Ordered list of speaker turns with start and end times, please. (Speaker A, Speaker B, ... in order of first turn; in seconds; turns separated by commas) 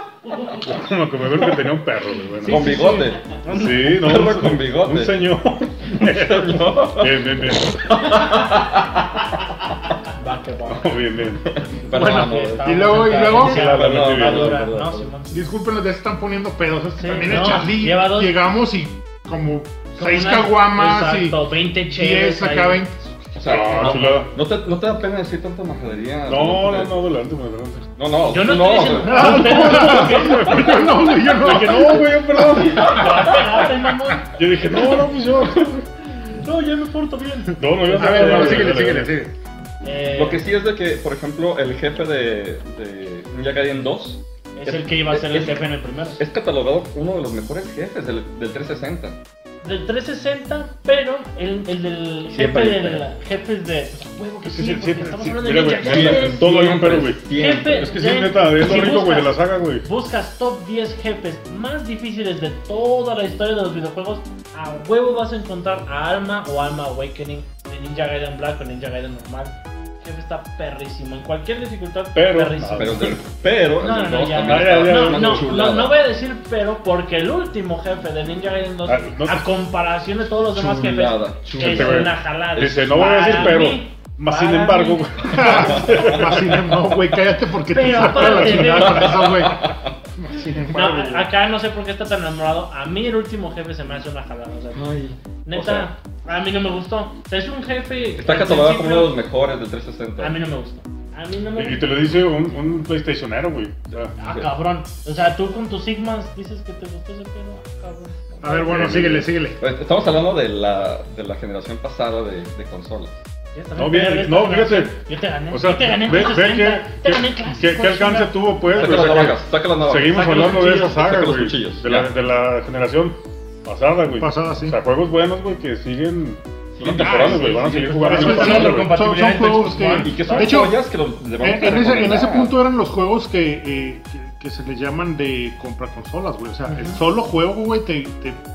Speaker A: 0.5-2.8, Speaker B: 2.4-4.0, Speaker C: 2.4-5.3, Speaker A: 3.5-7.8, Speaker C: 5.8-9.4, Speaker B: 10.1-11.0, Speaker A: 10.7-11.4, Speaker C: 11.4-15.1, Speaker B: 11.9-15.4, Speaker D: 11.9-13.8, Speaker A: 13.2-14.7, Speaker D: 15.3-23.2, Speaker B: 17.0-18.3, Speaker B: 19.9-22.8, Speaker C: 23.3-26.9, Speaker A: 23.4-24.3, Speaker A: 26.3-27.9, Speaker C: 28.0-29.8, Speaker B: 28.3-30.9, Speaker D: 29.0-32.2, Speaker A: 29.4-33.4, Speaker B: 32.5-34.7, Speaker A: 34.4-35.8, Speaker B: 36.2-38.8, Speaker A: 37.6-39.1, Speaker D: 37.9-39.3, Speaker B: 39.8-40.5, Speaker C: 40.1-49.2, Speaker B: 44.5-46.2, Speaker B: 49.6-73.2, Speaker C: 52.3-53.0, Speaker A: 54.4-59.9, Speaker C: 55.8-57.9, Speaker A: 72.1-73.2, Speaker C: 72.8-76.0, Speaker B: 73.8-86.1, Speaker A: 74.4-75.5, Speaker A: 78.8-79.5, Speaker C: 80.5-83.7, Speaker A: 81.5-86.6, Speaker D: 85.3-91.2, Speaker C: 85.5-86.2, Speaker B: 87.7-89.3, Speaker C: 88.4-89.9, Speaker B: 90.6-94.9, Speaker C: 94.7-95.9, Speaker B: 95.4-99.2, Speaker C: 98.2-100.4, Speaker B: 100.2-101.9, Speaker A: 101.6-104.1, Speaker B: 104.2-108.7, Speaker C: 104.2-104.5, Speaker D: 108.4-109.6, Speaker C: 108.5-113.2, Speaker B: 113.5-119.0, Speaker A: 113.8-115.0, Speaker A: 115.5-128.9, Speaker C: 118.7-122.1, Speaker B: 120.1-121.0, Speaker D: 124.2-124.8, Speaker C: 126.7-128.7, Speaker D: 127.0-127.5, Speaker B: 127.1-130.6, Speaker D: 128.0-130.8, Speaker C: 129.9-132.6, Speaker D: 131.4-138.4, Speaker B: 136.7-137.0